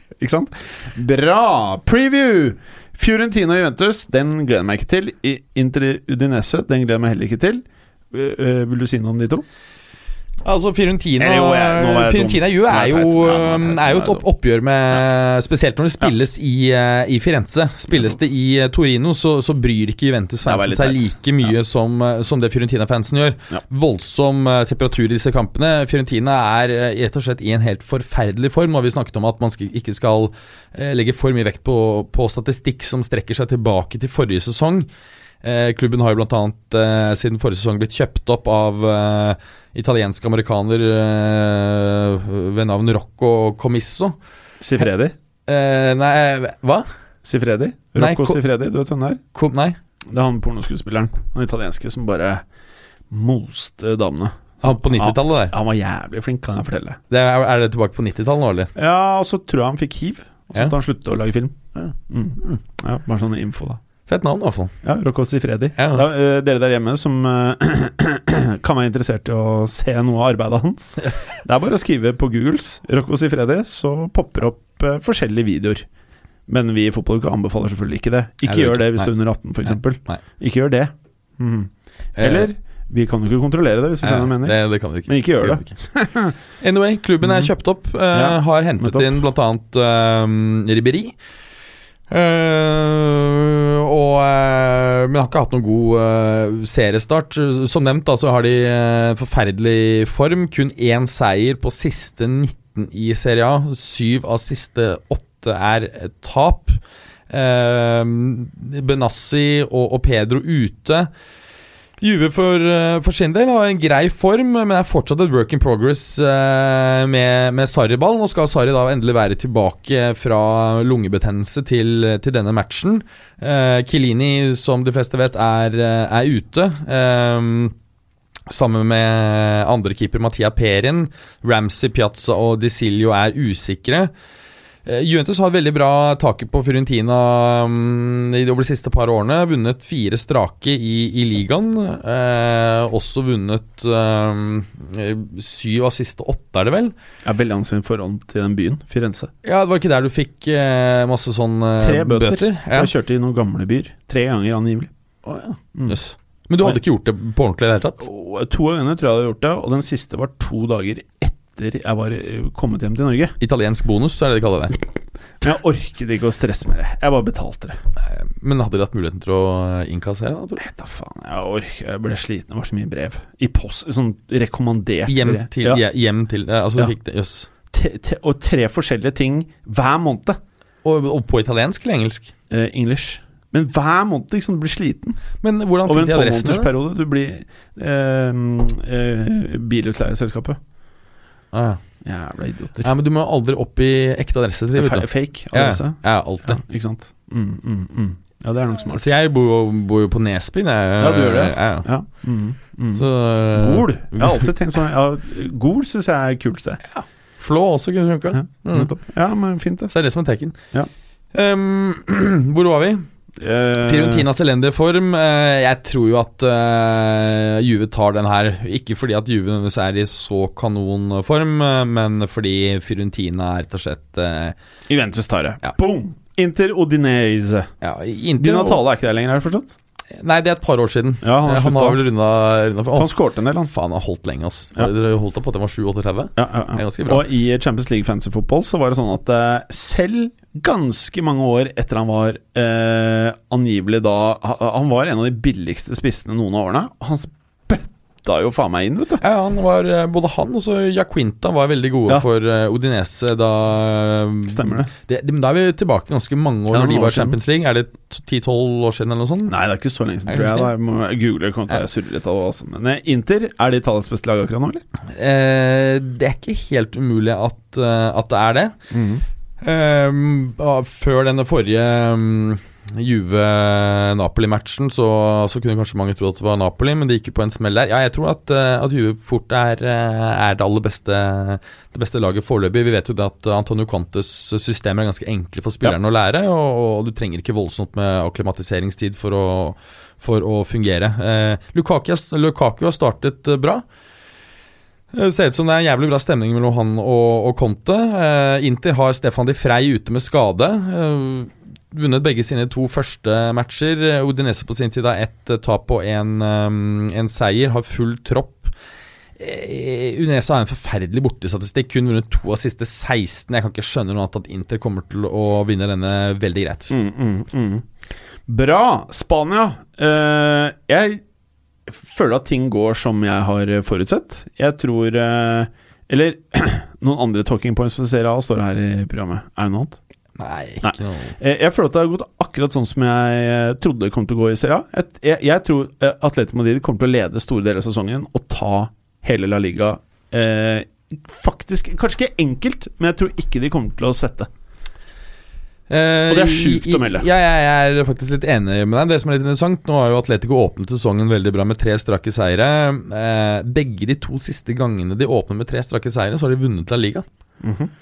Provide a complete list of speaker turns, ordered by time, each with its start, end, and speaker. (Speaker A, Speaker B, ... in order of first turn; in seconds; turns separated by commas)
Speaker A: 0.2-9.4, Speaker B: 10.4-34.9, Speaker A: 11.2-14.2, Speaker A: 20.4-21.1, Speaker B: 35.4-44.1, Speaker A: 44.6-45.1, Speaker B: 45.5-46.9, Speaker A: 47.2-49.2, Speaker B: 48.0-48.4, Speaker B: 49.3-49.8, Speaker A: 50.1-52.4, Speaker A: 53.1-57.0, Speaker B: 54.6-55.5, Speaker B: 57.1-58.7, Speaker A: 58.8-63.8, Speaker B: 61.8-62.6, Speaker B: 64.1-64.7, Speaker A: 64.8-75.8, Speaker B: 65.8-66.0, Speaker A: 76.5-86.3, Speaker B: 78.4-79.1, Speaker B: 82.2-82.5, Speaker B: 84.0-85.7, Speaker B: 86.6-91.1, Speaker A: 87.2-87.5, Speaker A: 88.1-89.2, Speaker B: 92.1-111.1, Speaker B: 112.0-127.7, Speaker B: 128.5-134.1, Speaker B: 134.8-146.9, Speaker A: 147.2-149.3, Speaker B: 149.4-152.9, Speaker A: 151.8-154.9, Speaker B: 155.2-158.0, Speaker A: 158.0-163.3, Speaker B: 163.4-164.8, Speaker A: 165.4-167.8, Speaker B: 168.0-170.6, Speaker A: 170.6-175.8, Speaker B: 175.1-177.5, Speaker A: 177.7-180.4, Speaker B: 180.8-182.3, Speaker A: 182.5-185.2, Speaker B: 185.4-186.7, Speaker A: 185.8-190.6, Speaker B: 191.5-191.8, Speaker A: 192.0-192.9, Speaker B: 192.8-196.6, Speaker A: 194.7-199.1, Speaker B: 198.9-201.9, Speaker A: 201.0-206.8, Speaker B: 202.9-204.5, Speaker B: 206.9-208.9, Speaker A: 208.3-209.9, Speaker B: 209.9-210.6, Speaker B: 211.3-213.1, Speaker A: 213.4-214.3, Speaker B: 213.8-224.6, Speaker A: 224.9-227.7, Speaker B: 227.8-228.8, Speaker A: 228.4-229.8, Speaker B: 230.2-237.3, Speaker A: 231.2-232.0, Speaker A: 232.9-233.7, Speaker A: 236.4-249.2, Speaker B: 249.2-259.6, Speaker A: 254.5-254.9, Speaker A: 256.7-257.4, Speaker A: 259.5-264.8, Speaker B: 260.3-260.7, Speaker B: 265.1-268.7, Speaker A: 268.9-269.2, Speaker B: 269.6-293.8, Speaker B: 295.1-308.7, Speaker B: 309.4-316.9, Speaker A: 316.9-317.9, Speaker A: 318.5-321.2, Speaker A: 321.9-330.0, Speaker B: 330.4-331.3, Speaker A: 330.8-344.5, Speaker B: 345.9-357.2, Speaker A: 346.3-347.2, Speaker A: 357.6-357.9